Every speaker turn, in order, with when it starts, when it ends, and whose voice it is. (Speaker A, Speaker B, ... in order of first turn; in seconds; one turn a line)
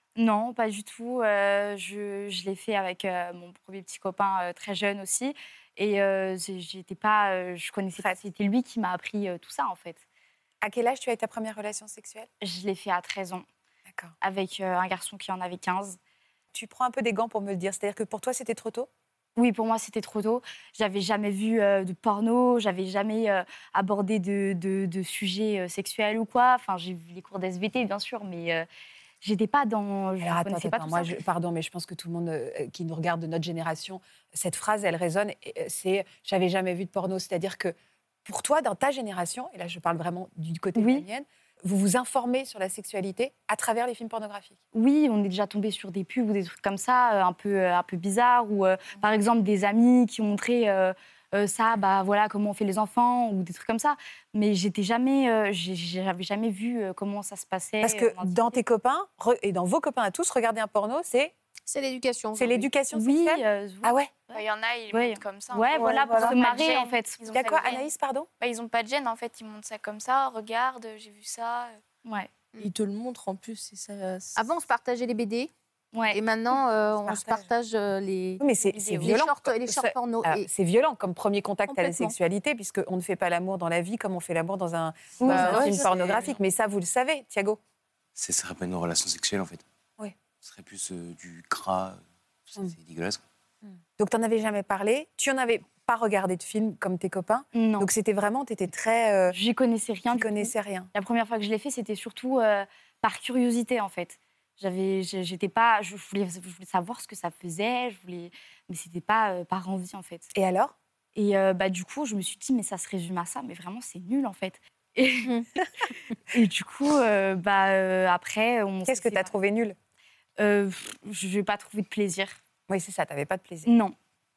Speaker A: 0.1-10.0
Speaker B: 10.6-12.3
Speaker A: 12.4-13.4
Speaker A: 14.2-16.0
Speaker B: 16.5-18.9
Speaker A: 19.4-28.7
Speaker A: 29.2-31.2
Speaker B: 30.2-44.5
Speaker A: 40.8-41.0
Speaker A: 44.7-58.6
Speaker B: 57.8-61.3
Speaker C: 61.7-62.7
Speaker B: 62.4-64.1
Speaker A: 62.9-67.6
Speaker D: 64.3-67.8
Speaker E: 65.7-66.3
Speaker B: 67.3-68.3
Speaker D: 68.4-71.8
Speaker A: 72.0-72.3
Speaker E: 72.6-74.4
Speaker C: 74.3-75.5
Speaker A: 75.9-76.2
Speaker C: 76.1-80.5
Speaker B: 77.0-77.5
Speaker B: 78.4-87.6
Speaker C: 81.7-82.1
Speaker A: 85.2-85.8
Speaker C: 85.2-86.2
Speaker F: 88.2-89.6
Speaker F: 90.4-93.2
Speaker B: 94.0-99.3
Speaker A: 97.5-97.9
Speaker A: 99.3-110.3
Speaker B: 100.1-100.9
Speaker B: 110.3-110.7
Speaker A: 111.1-115.5
Speaker A: 116.3-119.3
Speaker B: 118.9-119.8
Speaker A: 120.4-122.4
Speaker B: 122.7-123.7
Speaker A: 123.7-123.9